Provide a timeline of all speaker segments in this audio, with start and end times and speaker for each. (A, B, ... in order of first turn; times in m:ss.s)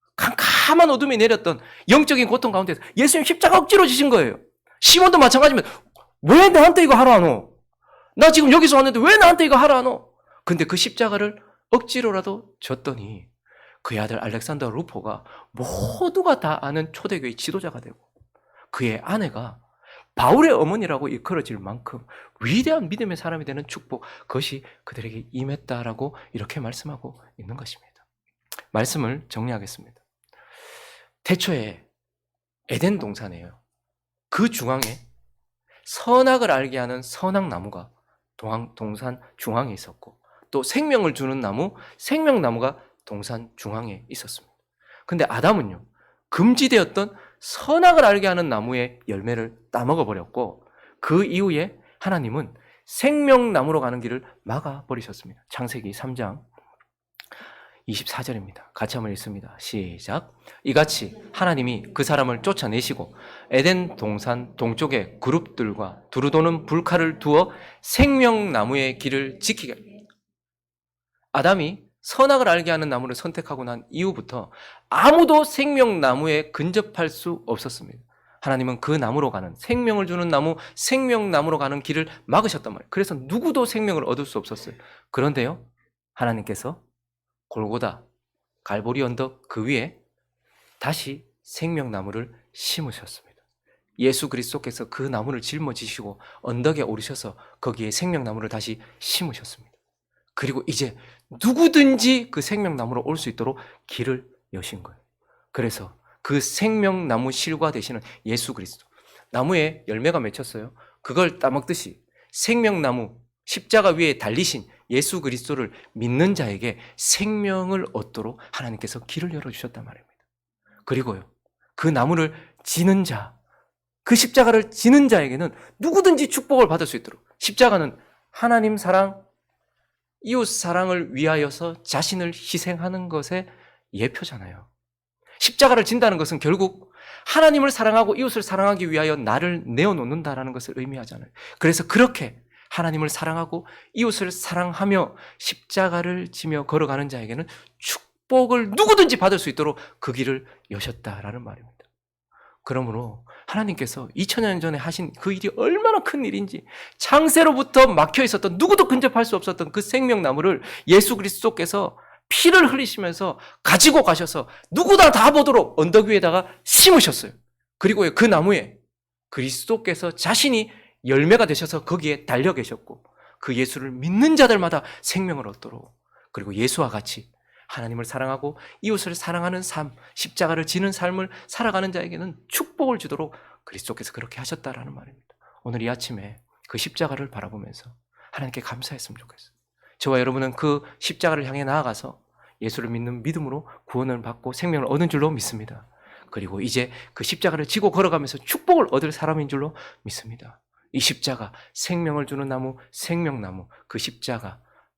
0:00.2-0:07.5 A
0:08.2-0:13.3 A
0:13.8-0:18.0 A
0:18.7-0:19.6 A
0:20.2-0:28.0 A
0:28.7-0:30.0 A
0:31.2-0:31.8 A
0:32.7-0:33.6 A
0:34.3-0:35.0 A
0:35.8-0:44.5 A
0:45.1-0:56.4 A
0:57.9-1:09.9 A
1:11.3-1:26.8 A
1:27.5-1:28.0 A
1:28.6-1:30.0 A
1:30.8-1:33.3 A
1:34.0-1:39.7 A
1:40.4-1:45.0 A
1:45.5-2:00.1 A
2:00.9-2:03.4 A
2:04.0-2:09.2 A
2:10.2-2:14.7 A
2:15.4-2:31.8 A
2:32.6-2:48.8 A
2:49.3-3:24.6 A